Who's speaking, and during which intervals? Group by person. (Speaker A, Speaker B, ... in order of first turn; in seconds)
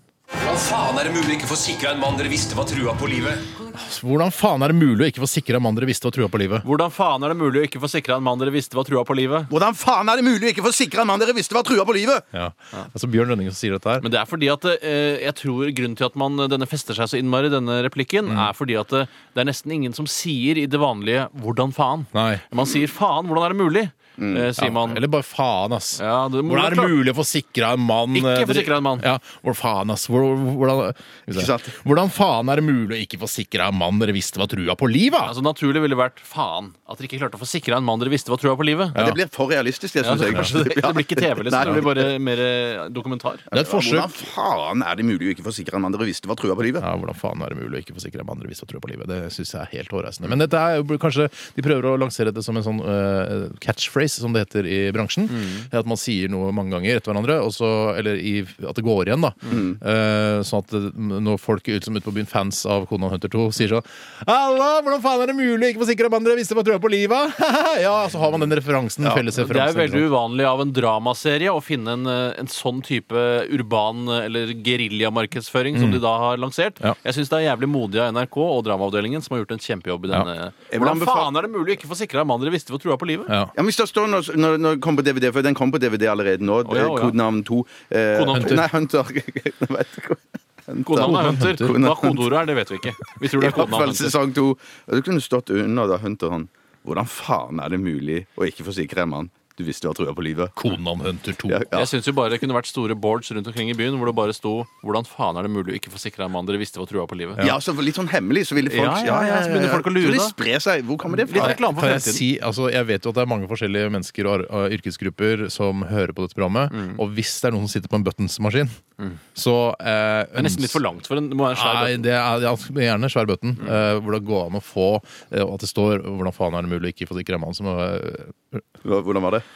Speaker A: 0.4-3.5
Speaker B: 3.7-6.6, 12.3-14.1, 18.2-18.5, 22.1-22.4, 24.6-35.3, 38.9-39.2, 40.2-40.5, 41.6-41.9, 43.5-44.2, 46.8-70.1, 75.7-76.0, 83.3-83.5, 88.3-88.6, 91.0-91.7, 100.5-101.6, 111.3-118.7, 119.3-120.8, 121.5-128.6
Speaker C: 6.6-9.5, 14.0-25.0, 26.0-26.9, 28.1-29.0, 35.2-39.0, 40.0-43.5, 69.3-83.3, 86.6-87.2, 88.1-88.7, 90.8-94.1, 101.7-107.4, 108.6-110.3, 111.2-112.2, 120.3-122.1
Speaker D: 9.5-12.2, 24.2-24.5, 31.3-31.8, 39.0-42.1, 43.5-46.9, 59.5-59.8, 80.7-81.4, 83.5-92.3, 93.3-100.5, 101.5-101.9, 107.4-111.6, 128.8-129.4